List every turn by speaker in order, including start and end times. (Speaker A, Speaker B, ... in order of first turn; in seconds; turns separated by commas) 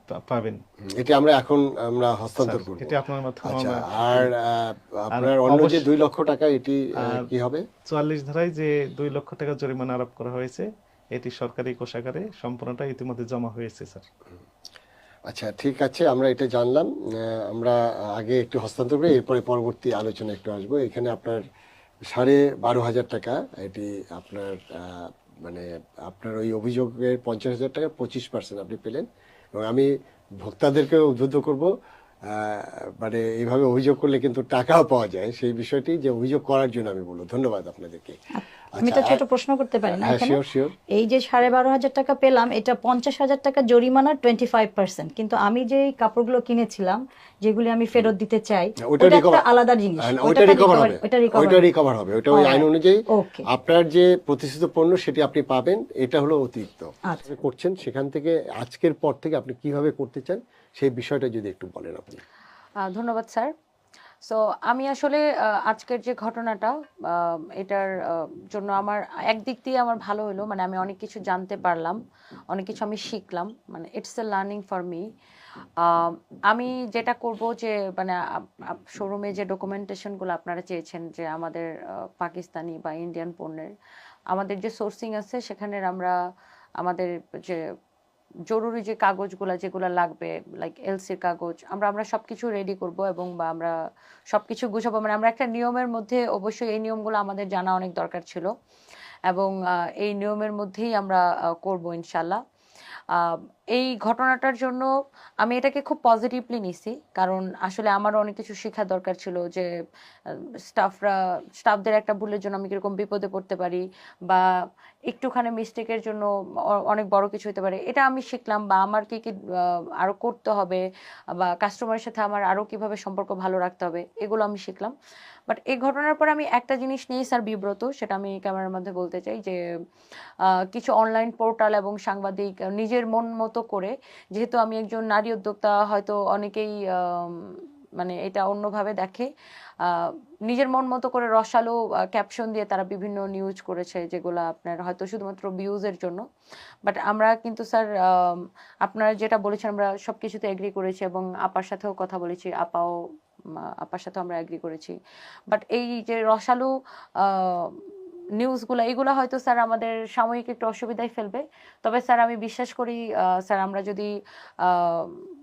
Speaker A: 0.3-0.6, Speaker B: 0.9-2.9, Speaker A: 2.4-4.3, Speaker B: 3.5-7.6, Speaker A: 5.1-5.8, Speaker A: 7.0-7.3, Speaker A: 7.9-14.1, Speaker B: 15.3-21.4, Speaker B: 22.1-29.9, Speaker B: 30.4-31.7, Speaker B: 32.3-38.2, Speaker C: 38.3-40.4, Speaker B: 38.7-39.2, Speaker B: 39.9-40.7, Speaker C: 40.9-51.6, Speaker B: 48.9-49.4, Speaker B: 50.0-62.2, Speaker C: 52.3-53.4, Speaker D: 62.8-63.5, Speaker D: 64.2-72.0, Speaker D: 72.5-75.0, Speaker D: 75.8-83.7, Speaker D: 84.3-86.1, Speaker D: 86.8-87.6, Speaker D: 88.5-93.7, Speaker D: 94.3-98.5, Speaker D: 99.3-102.4, Speaker D: 103.1-104.9, Speaker D: 105.4-109.7, Speaker D: 110.7-114.4, Speaker D: 115.1-119.3, Speaker D: 120.0-120.8, Speaker D: 121.4-124.9, Speaker D: 125.5-129.6, Speaker D: 130.7-137.3, Speaker D: 138.0-139.3, Speaker D: 139.8-146.2, Speaker D: 146.8-152.9, Speaker D: 153.8-154.9, Speaker D: 155.5-156.7, Speaker D: 157.2-157.7, Speaker D: 158.4-164.1, Speaker D: 164.6-165.1